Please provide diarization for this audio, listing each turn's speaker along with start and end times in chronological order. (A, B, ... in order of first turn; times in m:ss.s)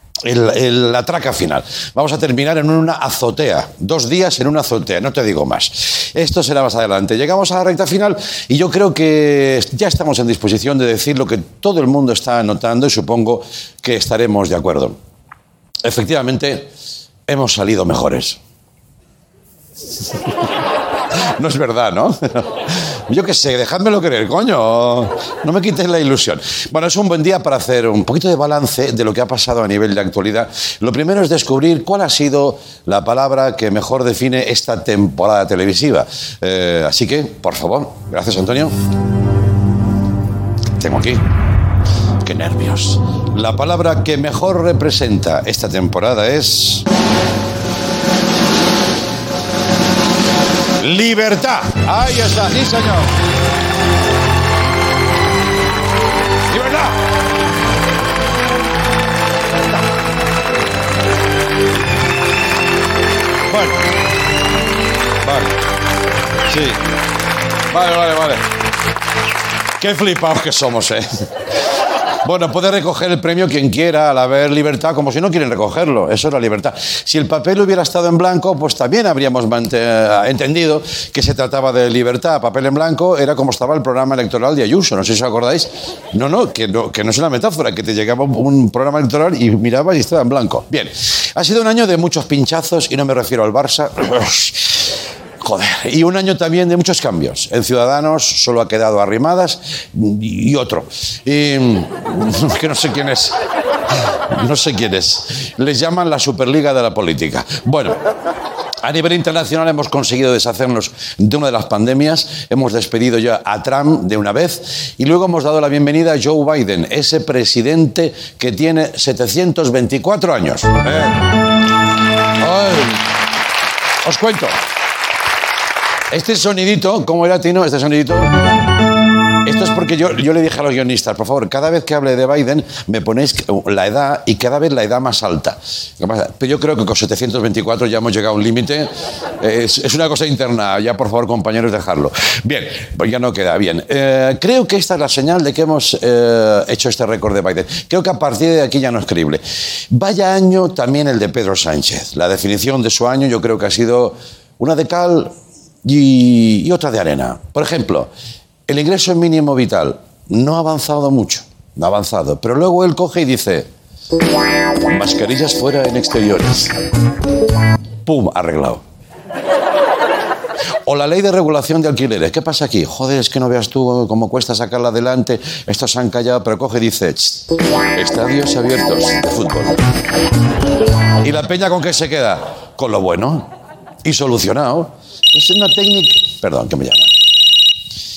0:00.2-0:15.0 A
0:15.8-0:16.7 A
0:17.3-0:18.4 A
0:21.1-0:38.7 A
0:40.8-0:41.2 A
0:42.2-0:46.9 A
0:50.8-0:53.1 A
0:56.5-0:57.0 A
1:03.5-1:03.9 A
1:05.2-1:05.6 A
1:06.5-1:06.8 A
1:07.7-1:08.5 A
1:09.8-1:11.3 A
1:12.2-1:43.4 A
1:44.1-1:48.0 A
1:48.8-2:01.2 A
2:02.4-2:03.0 A
2:04.0-2:04.6 A
2:06.1-2:08.3 A
2:09.4-2:35.3 A
2:35.8-2:38.1 A
2:38.7-2:43.7 A
2:44.8-2:46.8 A
2:48.0-2:48.8 A
2:50.8-2:59.8 A
3:01.2-3:03.5 A
3:04.0-3:07.1 A